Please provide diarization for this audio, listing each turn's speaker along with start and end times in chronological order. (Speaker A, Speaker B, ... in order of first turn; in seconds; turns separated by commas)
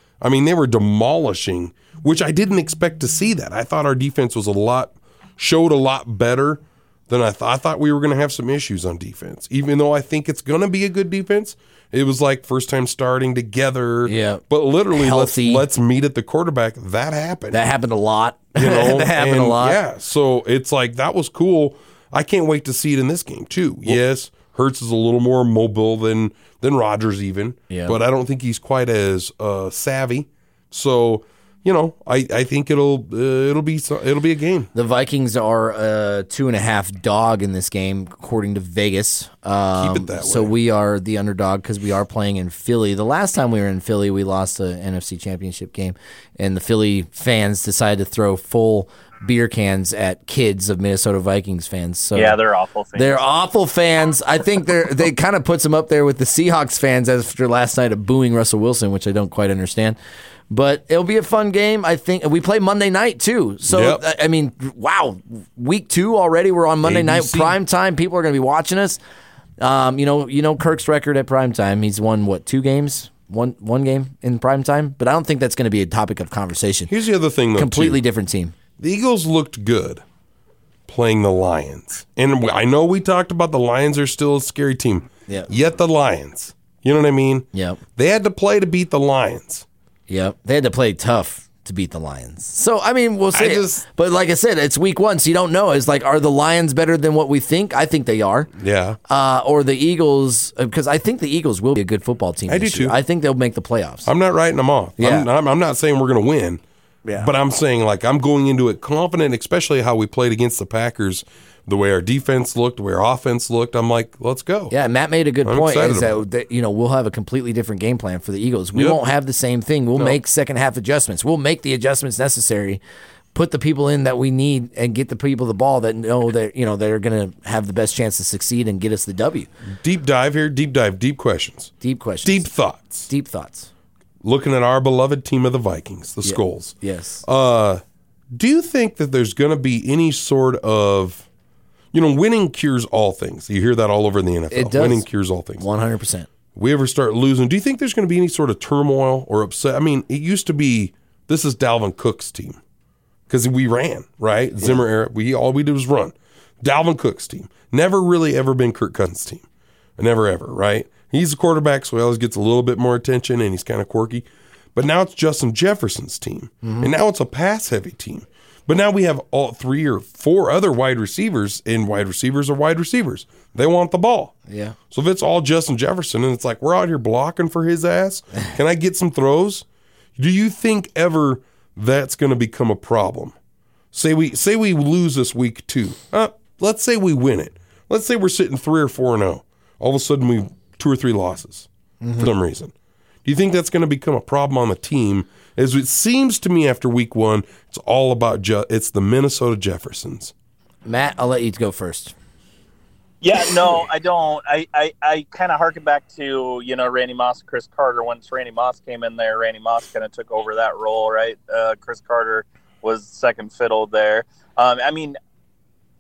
Speaker A: 0.2-17.6, Speaker B: 14.1-15.6, Speaker B: 17.5-19.8, Speaker A: 18.6-34.7, Speaker B: 27.7-28.0, Speaker B: 34.7-52.4, Speaker A: 39.8-40.5, Speaker C: 52.1-53.2, Speaker B: 53.0-60.0, Speaker B: 60.5-69.0, Speaker A: 63.7-64.0, Speaker A: 66.8-67.6, Speaker B: 69.6-76.9, Speaker A: 76.9-78.0, Speaker B: 77.5-78.5, Speaker A: 78.8-80.0, Speaker A: 80.9-89.7, Speaker B: 87.5-87.8, Speaker B: 90.1-98.5, Speaker A: 93.3-93.8, Speaker A: 98.6-99.0, Speaker B: 99.1-104.1, Speaker A: 102.5-103.0, Speaker A: 104.1-106.6, Speaker B: 105.0-105.3, Speaker A: 107.2-114.7, Speaker B: 114.7-122.8, Speaker A: 115.5-116.2, Speaker A: 118.7-119.0, Speaker B: 123.3-129.5, Speaker A: 129.7-133.1, Speaker B: 131.8-132.5, Speaker B: 133.1-133.7, Speaker A: 134.2-137.8, Speaker B: 136.2-137.2, Speaker A: 138.3-141.3, Speaker A: 141.9-145.6, Speaker B: 144.5-145.1, Speaker B: 145.6-146.3, Speaker A: 146.6-152.6, Speaker A: 153.3-159.4, Speaker A: 160.0-174.3, Speaker B: 166.6-166.9, Speaker B: 174.5-174.8, Speaker A: 174.9-179.7, Speaker A: 180.2-183.3, Speaker A: 183.9-192.7, Speaker B: 192.0-192.3, Speaker A: 193.2-200.3, Speaker B: 200.8-202.1, Speaker C: 203.2-215.2